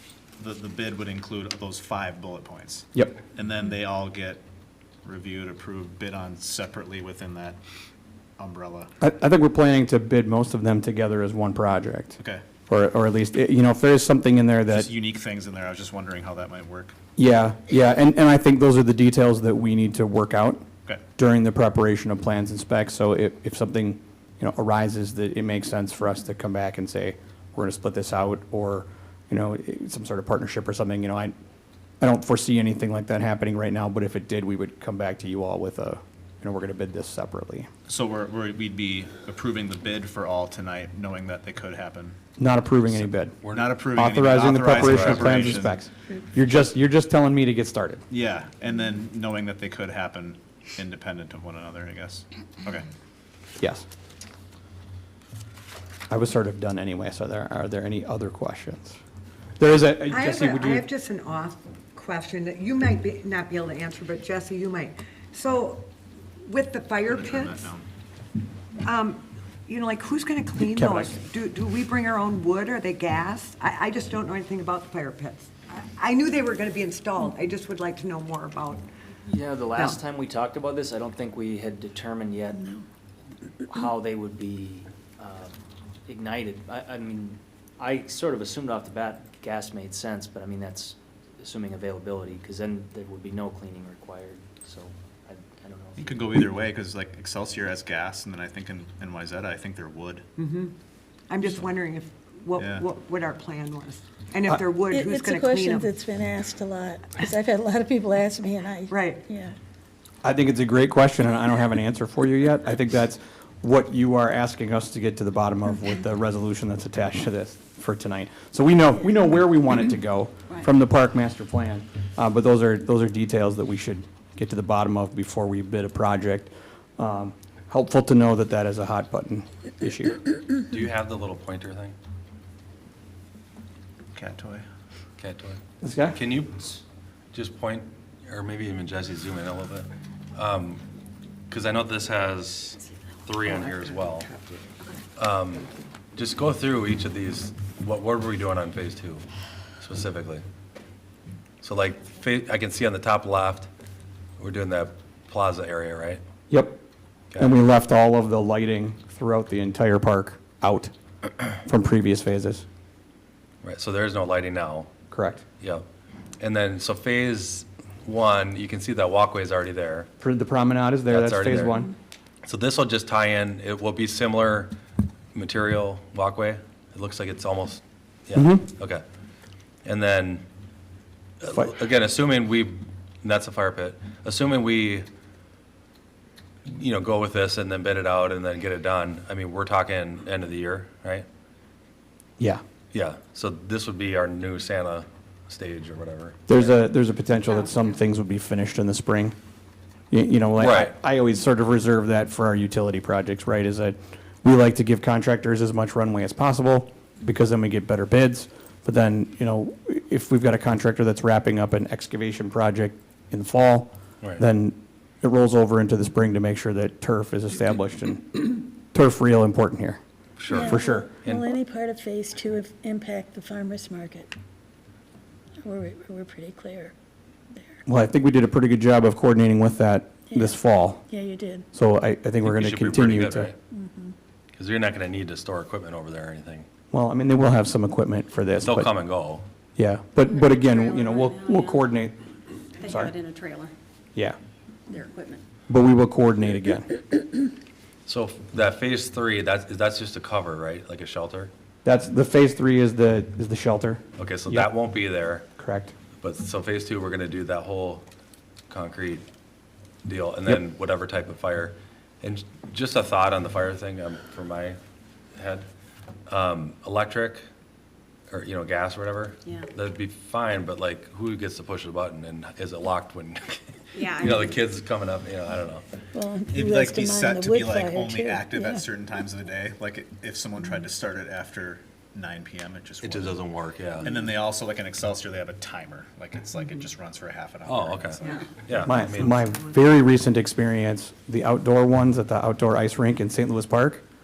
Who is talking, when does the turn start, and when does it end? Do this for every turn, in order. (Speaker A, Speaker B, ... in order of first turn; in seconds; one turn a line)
Speaker A: 0.4-4.4
Speaker A: 5.0-7.6
Speaker A: 8.4-8.9
Speaker B: 9.0-14.9
Speaker A: 14.7-16.9
Speaker B: 17.2-31.3
Speaker B: 32.0-37.7
Speaker A: 37.9-42.2
Speaker B: 42.4-48.0
Speaker A: 43.5-45.7
Speaker C: 44.7-45.6
Speaker A: 48.1-52.9
Speaker B: 53.6-53.8
Speaker B: 56.1-59.0
Speaker B: 59.6-60.9
Speaker D: 60.1-65.9
Speaker D: 66.4-67.7
Speaker A: 67.0-67.8
Speaker D: 68.8-78.8
Speaker B: 70.6-71.1
Speaker E: 79.2-82.7
Speaker D: 79.7-80.0
Speaker E: 83.6-96.3
Speaker A: 96.0-100.2
Speaker D: 100.4-100.7
Speaker D: 101.3-105.9
Speaker A: 102.6-102.8
Speaker F: 104.8-109.5
Speaker D: 108.9-109.2
Speaker B: 110.2-130.2
Speaker C: 130.7-131.9
Speaker A: 134.1-134.7
Speaker C: 135.2-135.6
Speaker B: 135.8-136.2
Speaker C: 136.1-140.8
Speaker C: 141.5-144.3
Speaker C: 145.2-149.2
Speaker C: 149.8-150.4
Speaker C: 151.6-153.7
Speaker C: 154.4-156.2
Speaker B: 156.5-156.8
Speaker B: 157.4-160.9
Speaker B: 161.6-162.6
Speaker C: 163.6-164.9
Speaker B: 165.1-165.4
Speaker C: 165.6-165.8
Speaker C: 166.4-170.1
Speaker B: 170.2-171.9
Speaker C: 171.1-171.8
Speaker C: 172.4-174.7
Speaker C: 175.3-179.0
Speaker B: 178.3-178.7
Speaker C: 179.8-180.4
Speaker C: 181.4-185.1
Speaker C: 186.7-191.2
Speaker C: 192.9-196.7
Speaker B: 196.5-199.3
Speaker B: 200.1-220.0
Speaker C: 200.6-200.9
Speaker C: 220.4-221.5
Speaker F: 220.5-224.3
Speaker B: 220.6-221.1
Speaker F: 225.6-226.9
Speaker F: 227.5-227.8
Speaker B: 227.9-231.0
Speaker F: 230.3-231.7
Speaker B: 231.7-233.5
Speaker C: 232.4-233.6
Speaker F: 233.7-234.1
Speaker C: 234.5-236.7
Speaker B: 236.9-238.9
Speaker C: 238.6-239.4
Speaker B: 239.8-242.2
Speaker G: 240.4-241.8
Speaker B: 242.8-243.2
Speaker G: 242.8-243.7
Speaker G: 244.9-245.4
Speaker B: 245.7-247.0
Speaker C: 248.1-251.5
Speaker B: 251.8-254.8
Speaker C: 254.2-255.4
Speaker B: 255.6-255.9
Speaker C: 256.2-258.0
Speaker C: 258.7-259.2
Speaker C: 260.1-264.8
Speaker C: 265.3-265.6
Speaker C: 266.3-267.4
Speaker C: 268.3-275.8
Speaker G: 273.9-274.6
Speaker F: 276.1-278.8
Speaker A: 276.5-283.4
Speaker C: 283.0-284.1
Speaker A: 284.0-288.8
Speaker C: 287.6-289.4
Speaker G: 288.2-288.5
Speaker B: 288.8-294.0